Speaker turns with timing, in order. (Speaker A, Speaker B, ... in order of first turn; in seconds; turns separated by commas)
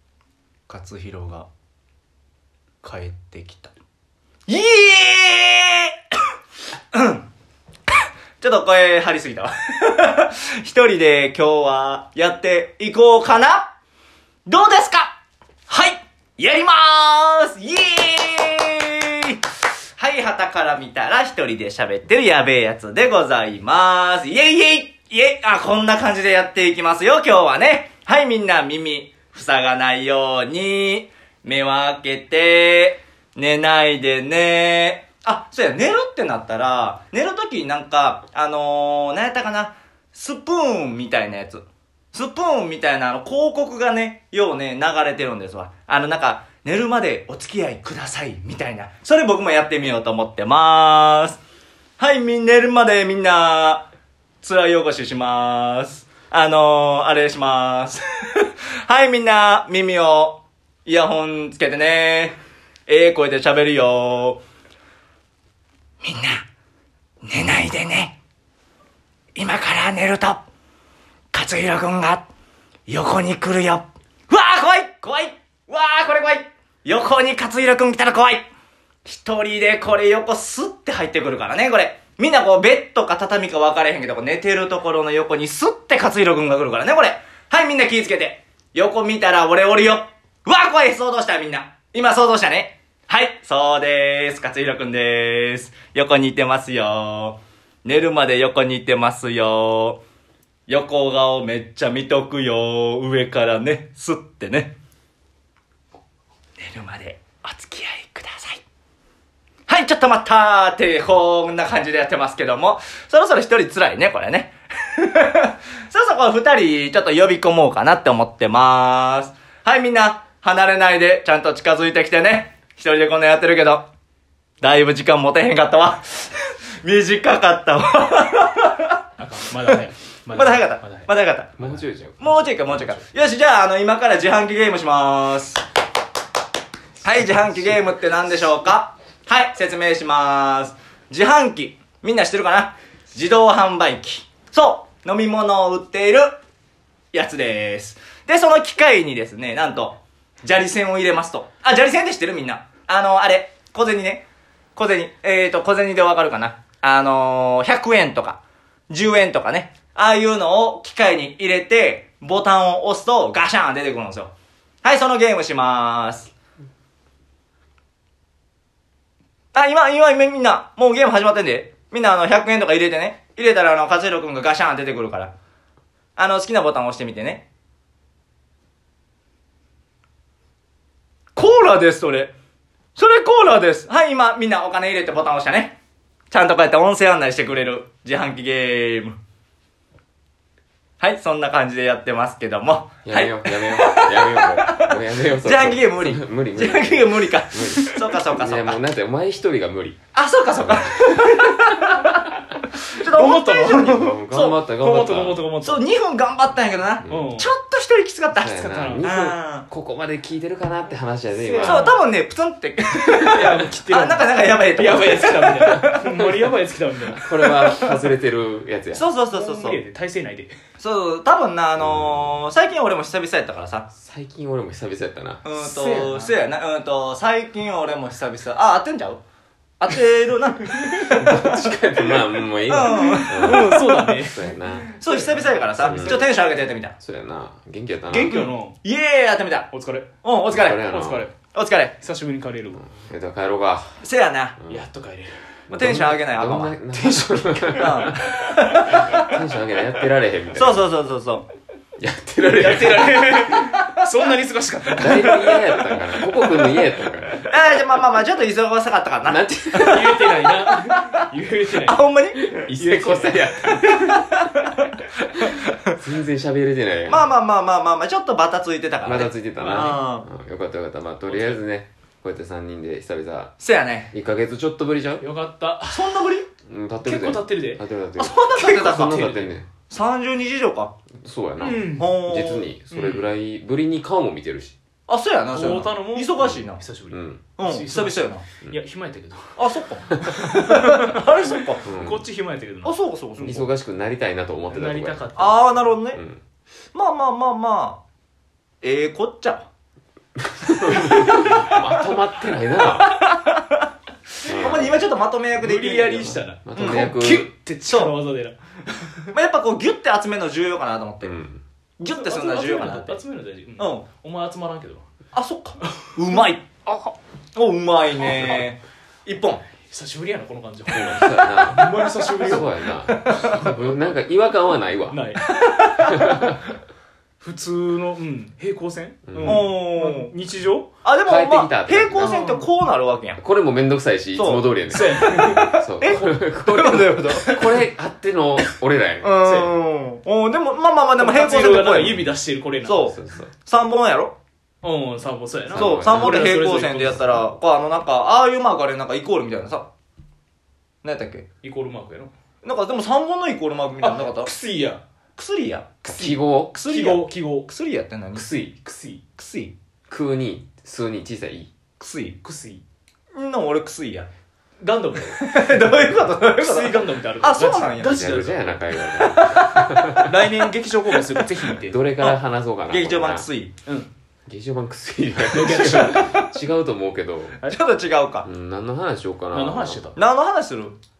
Speaker A: 0.7-1.5, Speaker A: 2.8-3.7, Speaker A: 4.5-5.9, Speaker A: 6.9-7.2, Speaker A: 8.4-13.7, Speaker A: 14.4-19.4, Speaker A: 20.0-51.4, Speaker A: 52.0-53.9, Speaker A: 54.4-64.4, Speaker A: 66.0-66.5, Speaker A: 67.2-68.2, Speaker A: 69.3-70.4, Speaker A: 71.3-72.2, Speaker A: 72.9-78.5, Speaker A: 79.0-100.0, Speaker A: 100.7-104.7, Speaker A: 106.6-108.6, Speaker A: 109.7-123.9, Speaker A: 124.6-128.9, Speaker B: 129.2-131.8, Speaker A: 130.3-131.5, Speaker C: 131.6-133.1, Speaker A: 132.2-135.6, Speaker A: 137.0-146.4, Speaker A: 147.1-154.2, Speaker A: 154.8-164.3, Speaker A: 164.8-166.3, Speaker A: 169.5-175.3, Speaker A: 176.2-177.4, Speaker A: 181.3-182.3, Speaker A: 182.9-185.8, Speaker A: 186.3-189.2, Speaker A: 191.0-198.8, Speaker C: 193.0-200.0, Speaker A: 200.1-202.2, Speaker A: 202.9-204.6, Speaker B: 203.1-204.0, Speaker C: 203.8-205.4, Speaker B: 204.7-205.8, Speaker A: 205.6-209.7, Speaker C: 207.0-207.3, Speaker B: 207.0-207.5, Speaker B: 208.4-209.1, Speaker C: 208.4-211.9, Speaker B: 211.3-212.0, Speaker A: 211.6-216.2, Speaker B: 213.2-217.3, Speaker C: 217.1-219.0, Speaker A: 218.9-219.8, Speaker B: 219.3-220.5, Speaker A: 220.8-223.9, Speaker C: 221.8-222.3, Speaker C: 223.9-225.4, Speaker A: 225.4-229.2, Speaker B: 225.5-226.4, Speaker A: 229.8-231.6, Speaker C: 231.0-234.9, Speaker A: 232.7-234.1, Speaker B: 232.8-236.2, Speaker A: 235.0-236.9, Speaker C: 235.8-236.2, Speaker C: 237.0-238.4, Speaker B: 238.1-238.8, Speaker A: 238.3-239.7, Speaker B: 239.7-240.1, Speaker A: 240.2-240.8, Speaker C: 240.5-241.3, Speaker B: 240.8-241.3, Speaker A: 241.5-241.9, Speaker B: 242.0-242.8, Speaker C: 242.8-244.0, Speaker A: 244.0-244.6, Speaker C: 244.6-244.8, Speaker B: 244.7-245.4, Speaker C: 245.7-248.1, Speaker A: 245.7-246.8, Speaker B: 247.1-248.1, Speaker A: 247.7-249.2, Speaker C: 248.9-250.8, Speaker A: 250.5-251.4, Speaker C: 252.0-253.6, Speaker B: 252.6-255.7, Speaker C: 255.0-257.5, Speaker A: 257.5-261.1, Speaker C: 259.2-260.4, Speaker B: 259.8-262.0, Speaker A: 261.8-262.6, Speaker C: 262.5-264.0, Speaker B: 262.7-263.5, Speaker A: 263.9-264.8, Speaker A: 265.4-265.7, Speaker C: 266.0-267.3, Speaker A: 267.1-270.3, Speaker C: 269.0-273.6, Speaker B: 271.3-271.6, Speaker A: 273.6-274.1, Speaker C: 274.1-275.3, Speaker B: 275.2-276.1, Speaker A: 275.9-276.5, Speaker C: 276.7-279.7, Speaker B: 277.0-277.8, Speaker A: 278.2-280.9, Speaker C: 281.2-284.8, Speaker B: 281.6-282.2, Speaker A: 281.9-282.7, Speaker B: 282.9-283.3, Speaker A: 285.1-286.8, Speaker B: 285.5-289.6, Speaker C: 286.4-287.4, Speaker A: 287.6-288.4, Speaker A: 289.6-291.8, Speaker B: 290.2-291.1, Speaker B: 291.8-293.0, Speaker C: 291.9-292.2, Speaker A: 292.8-293.7, Speaker C: 293.4-295.3, Speaker B: 294.7-295.6, Speaker A: 295.4-296.2, Speaker C: 296.1-296.4, Speaker A: 296.9-298.0, Speaker A: 298.8-299.7, Speaker C: 300.4-303.1, Speaker A: 300.7-302.0, Speaker A: 303.0-303.6, Speaker A: 304.4-307.1, Speaker C: 304.4-304.9, Speaker B: 305.6-309.3, Speaker C: 306.6-307.5, Speaker A: 307.9-308.1, Speaker A: 309.3-311.4, Speaker C: 311.2-311.6, Speaker A: 312.0-313.2, Speaker B: 312.0-315.0, Speaker A: 313.8-314.1, Speaker A: 315.3-319.6, Speaker B: 315.9-316.4, Speaker B: 319.9-323.6, Speaker C: 320.9-325.2, Speaker B: 325.1-326.1, Speaker A: 325.6-326.0, Speaker C: 326.1-326.6, Speaker B: 327.4-330.9, Speaker C: 329.3-329.7, Speaker A: 329.4-330.3, Speaker A: 331.0-333.4, Speaker C: 331.2-332.4, Speaker B: 332.2-332.6, Speaker C: 333.4-339.4, Speaker A: 334.3-334.7, Speaker B: 334.9-335.7, Speaker A: 335.2-337.8, Speaker A: 339.2-342.1, Speaker B: 339.4-339.7, Speaker B: 341.2-343.1, Speaker C: 342.0-342.3, Speaker A: 342.8-344.3, Speaker C: 343.0-343.5, Speaker B: 344.8-347.5, Speaker C: 345.7-346.5, Speaker A: 345.7-349.9, Speaker A: 351.0-351.4, Speaker B: 351.6-352.3, Speaker A: 352.6-354.5, Speaker B: 354.0-355.0, Speaker A: 355.4-358.5, Speaker B: 356.1-357.7, Speaker C: 356.1-356.7, Speaker C: 358.4-358.7, Speaker B: 358.7-359.2, Speaker A: 359.4-359.7, Speaker C: 360.1-361.7, Speaker A: 362.0-362.4, Speaker B: 362.4-362.8, Speaker A: 363.4-364.3, Speaker B: 364.8-372.0, Speaker A: 365.4-368.1, Speaker C: 368.0-370.4, Speaker C: 371.7-373.5, Speaker A: 372.2-373.7, Speaker C: 374.5-377.6, Speaker B: 375.5-376.4, Speaker A: 377.6-378.5, Speaker C: 378.4-380.2, Speaker B: 379.5-380.2, Speaker A: 380.1-381.0